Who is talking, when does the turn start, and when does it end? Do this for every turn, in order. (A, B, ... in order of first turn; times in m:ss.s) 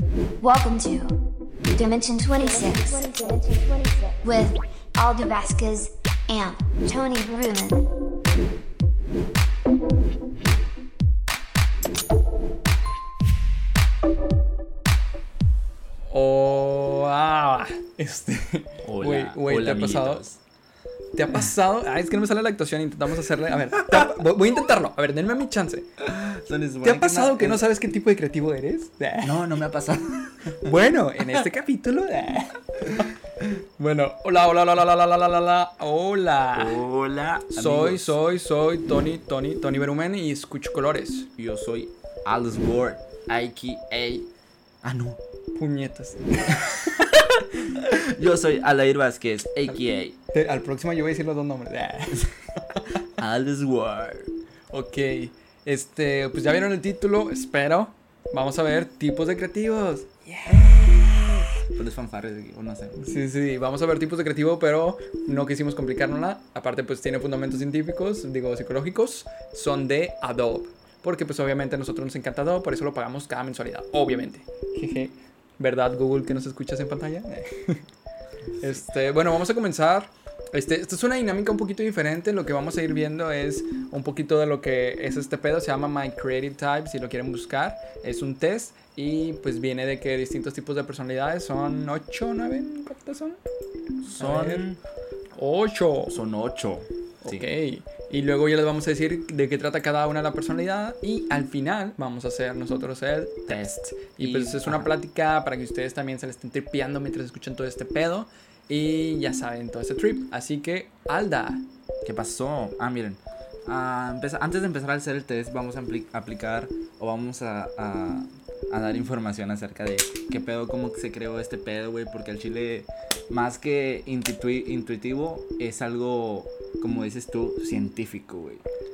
0:00.4-0:01.2 A
0:01.8-0:07.8 A
0:16.1-0:20.3 B
0:18.8-0:20.4 C
0:21.2-0:25.9 B
0:26.0-0:27.6 C
0:26.8-0:29.4 B
0:29.2-0:30.8 C
0:30.6-0:33.1 B
0:33.0-0:33.5 C
0:33.8-0:36.8 B
0:36.6-0:38.2 C
0:37.5-0:41.3 B
0:41.4-0:44.3 C
0:44.8-0:45.2 C
0:45.6-0:46.8 B
0:46.5-0:50.2 C
0:50.3-0:52.8 B
0:53.2-0:54.3 C
0:54.7-1:01.0 B
1:00.5-1:03.2 C
1:03.0-1:17.9 B
1:18.6-1:33.4 B
1:34.0-1:34.8 C
1:34.2-1:34.6 B
1:35.4-1:36.2 B
1:36.1-1:37.5 C
1:37.2-1:51.6 B
1:43.5-1:44.9 C
1:52.0-2:08.6 C